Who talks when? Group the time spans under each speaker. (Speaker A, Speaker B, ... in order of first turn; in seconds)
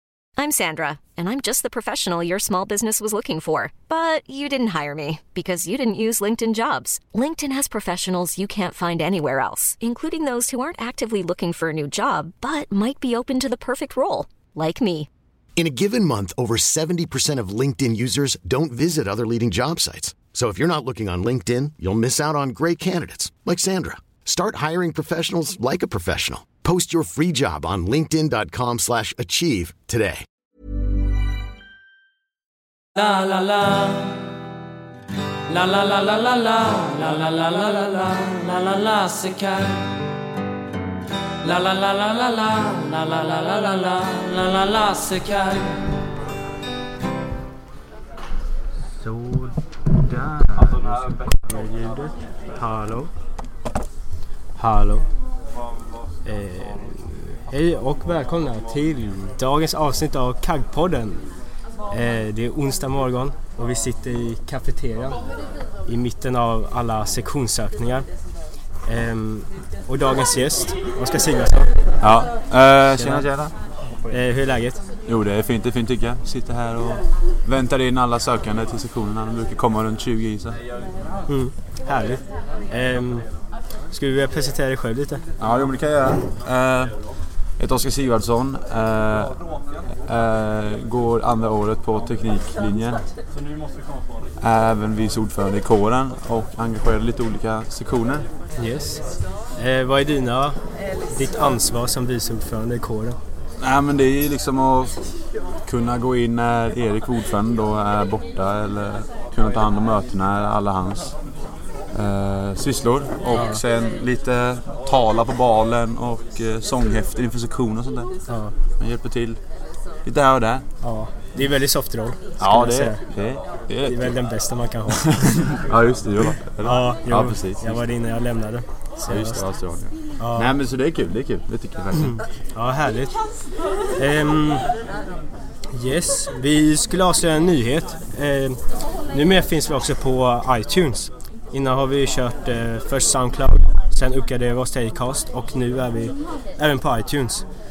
Speaker A: 0.4-15.1
Speaker B: 15.6-30.2
Speaker C: 33.0-34.2, 35.5-39.9, 41.4-45.9
Speaker D: 49.0-49.5, 51.2-53.1, 54.6-55.0, 56.2-61.2, 61.9-65.2, 65.9-68.1, 68.8-71.7, 73.0-73.3, 74.1-74.8, 81.3-83.2, 83.9-85.2, 98.6-99.0, 99.5-100.6, 101.1-103.2, 113.3-113.6, 118.3-118.5, 120.8-123.0, 123.9-125.3, 126.6-129.4, 130.2-130.5, 132.5-133.2, 134.0-134.6, 135.7-138.6, 139.1-147.4
Speaker E: 50.5-50.9, 72.0-73.5, 75.1-80.6, 85.4-86.9, 87.6-89.3, 90.1-93.0, 94.4-98.3, 103.6-105.0, 105.7-111.1, 111.9-118.1, 118.8-119.4, 120.0-120.6, 122.4-124.1, 124.9-127.8, 129.1-132.2